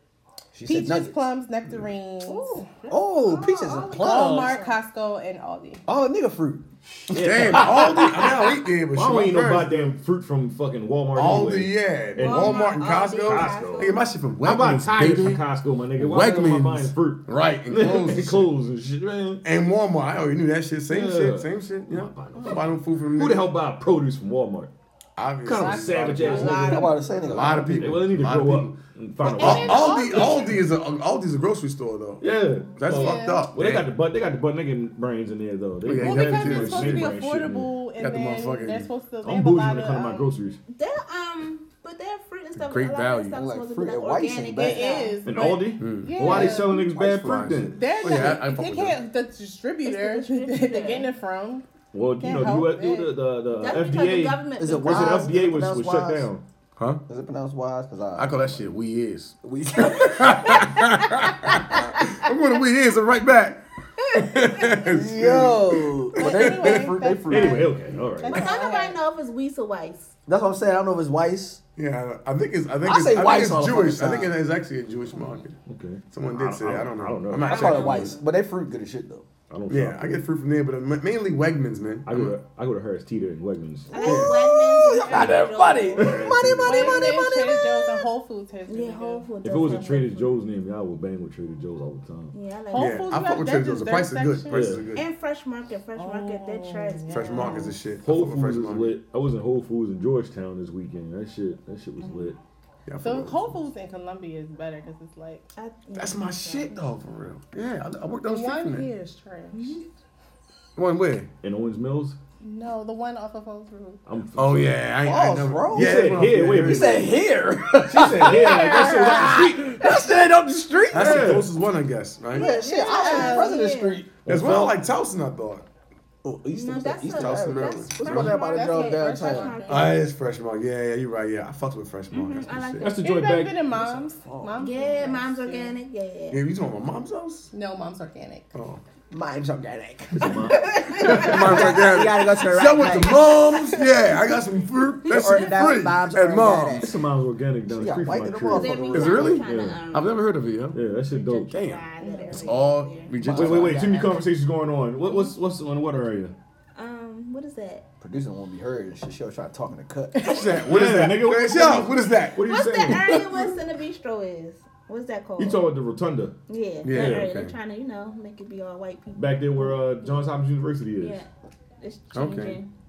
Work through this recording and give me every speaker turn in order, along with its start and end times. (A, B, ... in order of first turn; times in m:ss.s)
0:00.5-0:01.2 A
0:00.6-0:05.8 B
0:02.2-0:02.6 C
0:02.9-0:04.6 A
0:03.2-0:04.8 C
0:05.8-0:06.6 A
0:06.9-0:08.2 D
0:07.1-0:10.0 E
0:07.4-0:08.4 A
0:08.9-0:19.4 D
0:11.1-0:15.4 E
0:12.2-0:14.0 C
0:16.0-0:18.5 E
0:19.4-0:23.5 E
0:20.9-0:24.7 D
0:25.2-0:33.9 E
0:25.4-0:30.6 D
0:25.6-0:26.9 B
0:26.3-0:26.9 C
0:26.3-0:27.9 A
0:29.3-0:30.4 B
0:32.2-0:37.7 D
0:32.9-0:33.5 B
0:35.8-0:37.2 E
0:35.9-0:40.3 B
0:38.0-0:38.9 E
0:39.2-0:40.6 D
0:40.7-0:45.2 C
0:42.6-0:43.4 E
0:43.3-0:45.0 A
0:44.6-0:46.9 B
0:45.2-0:47.8 D
0:45.8-0:49.0 E
0:46.3-0:47.7 A
0:47.7-0:51.6 B
0:49.8-0:51.1 C
0:51.9-0:56.4 D
0:52.2-0:53.1 B
0:53.6-0:55.4 C
0:54.6-0:56.3 A
0:56.8-0:57.0 E
0:57.1-0:58.6 A
0:58.2-1:07.3 E
0:59.4-1:02.0 A
1:04.8-1:07.7 A
1:06.2-1:09.0 B
1:07.3-1:08.5 D
1:08.3-1:10.1 C
1:10.2-1:11.6 A
1:11.8-1:15.6 E
1:12.8-1:14.4 A
1:15.7-1:18.0 D
1:16.1-1:18.2 E
1:17.4-1:19.2 A
1:17.8-1:18.0 C
1:19.5-1:20.2 D
1:19.7-1:22.4 E
1:22.0-1:23.9 D
1:23.9-1:26.2 C
1:24.0-1:27.8 A
1:24.0-1:24.4 E
1:26.0-1:27.0 D
1:26.6-1:29.3 B
1:26.9-1:27.3 C
1:28.7-1:30.4 C
1:29.4-1:32.3 D
1:32.3-1:33.1 C
1:32.7-1:34.7 B
1:32.7-1:35.0 E
1:34.5-1:34.9 D
1:34.9-1:37.8 C
1:36.0-1:37.8 B
1:37.1-1:38.9 E
1:38.0-1:42.4 D
1:42.9-1:43.5 E
1:43.0-1:45.4 B
1:45.6-1:46.8 C
1:45.9-1:48.9 E
1:48.2-1:49.8 B
1:49.5-1:49.8 C
1:50.8-1:51.3 E
1:51.4-1:52.2 D
1:52.4-1:54.0 B
1:54.0-1:54.8 D
1:54.3-1:57.1 E
1:55.0-2:01.4 A
1:55.7-1:57.2 D
1:57.8-2:00.0 D
1:58.5-1:59.2 B
2:00.9-2:02.5 E
2:00.9-2:01.5 D
2:02.3-2:04.1 A
2:02.3-2:04.0 C
2:02.4-2:03.7 B
2:04.2-2:04.8 D
2:04.2-2:05.6 E
2:06.2-2:09.6 A
2:06.5-2:10.0 C
2:07.1-2:08.4 E
2:08.1-2:09.9 B
2:09.7-2:12.9 E
2:12.1-2:13.0 C
2:12.8-2:13.6 D
2:12.8-2:15.8 B
2:13.7-2:14.7 A
2:14.6-2:16.4 C
2:16.3-2:17.5 E
2:17.5-2:18.5 B
2:18.5-2:18.8 E
2:19.1-2:23.4 A
2:20.2-2:20.6 D
2:20.5-2:21.2 B
2:21.0-2:27.0 E
2:25.0-2:27.0 A
2:26.8-2:29.8 D
2:27.7-2:29.4 A
2:28.5-2:30.3 C
2:28.9-2:30.8 E
2:30.7-2:31.6 D
2:31.1-2:33.1 C
2:31.5-2:33.8 E
2:32.0-2:32.6 B
2:33.2-2:34.2 A
2:33.2-2:36.3 D
2:35.1-2:35.3 C
2:36.7-2:37.8 C
2:38.0-2:40.4 A
2:40.2-2:43.2 E
2:40.6-2:43.2 D
2:42.4-2:45.6 C
2:45.4-2:46.3 D
2:46.5-2:50.3 C
2:46.8-2:47.5 E
2:46.9-2:47.3 D
2:49.1-2:51.2 D
2:51.0-2:51.3 C
2:51.8-2:52.7 C
2:52.1-2:52.6 E